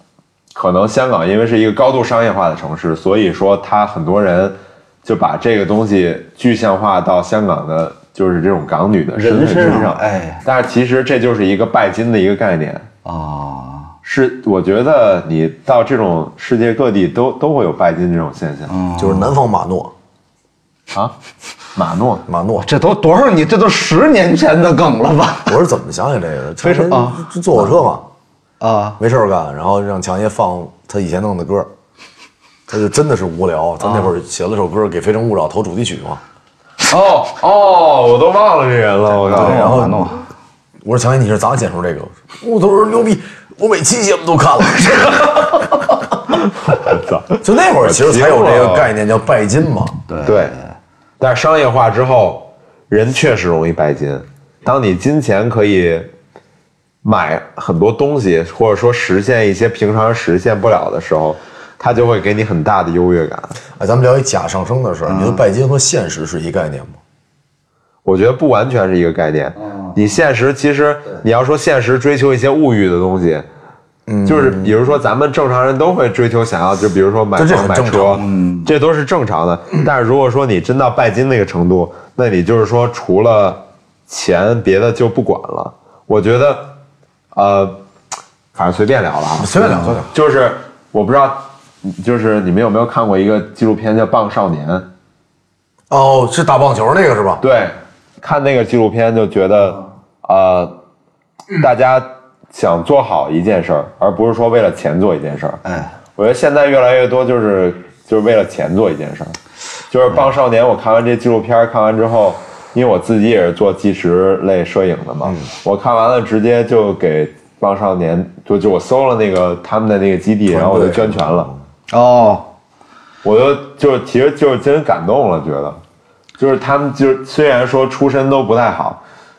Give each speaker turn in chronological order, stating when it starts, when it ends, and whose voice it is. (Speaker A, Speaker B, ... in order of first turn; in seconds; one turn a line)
Speaker A: 0.5-12.9
Speaker B: 9.2-10.4
Speaker B: 13.1-13.9
Speaker A: 14.0-18.7
Speaker B: 18.7-19.3
Speaker C: 19.0-19.9
Speaker A: 21.7-22.2
Speaker C: 22.3-22.7
Speaker B: 22.6-25.6
Speaker C: 25.5-28.1
Speaker B: 26.6-27.3
Speaker B: 28.6-29.0
Speaker C: 29.0-31.7
Speaker C: 32.7-36.2
Speaker B: 33.8-34.1
Speaker A: 36.9-39.7
Speaker C: 39.2-40.1
Speaker B: 39.3-40.3
Speaker C: 40.8-45.7
Speaker A: 46.3-48.9
Speaker C: 47.4-50.0
Speaker B: 50.1-50.7
Speaker A: 50.2-50.5
Speaker A: 51.2-56.1
Speaker A: 57.0-63.6
Speaker C: 63.8-67.0
Speaker B: 65.0-65.4
Speaker A: 68.0-73.5
Speaker C: 74.1-74.7
Speaker A: 74.3-86.8
Speaker C: 77.3-78.2
Speaker B: 78.2-78.7
Speaker A: 87.3-87.8
Speaker A: 88.5-94.9
Speaker C: 89.4-90.1
Speaker C: 95.9-97.4
Speaker A: 97.4-100.7
Speaker A: 101.5-105.6
Speaker B: 105.6-105.9
Speaker A: 106.2-109.4
Speaker A: 109.9-121.5
Speaker C: 120.5-121.5
Speaker B: 121.9-122.5
Speaker A: 123.2-125.8
Speaker A: 126.4-129.0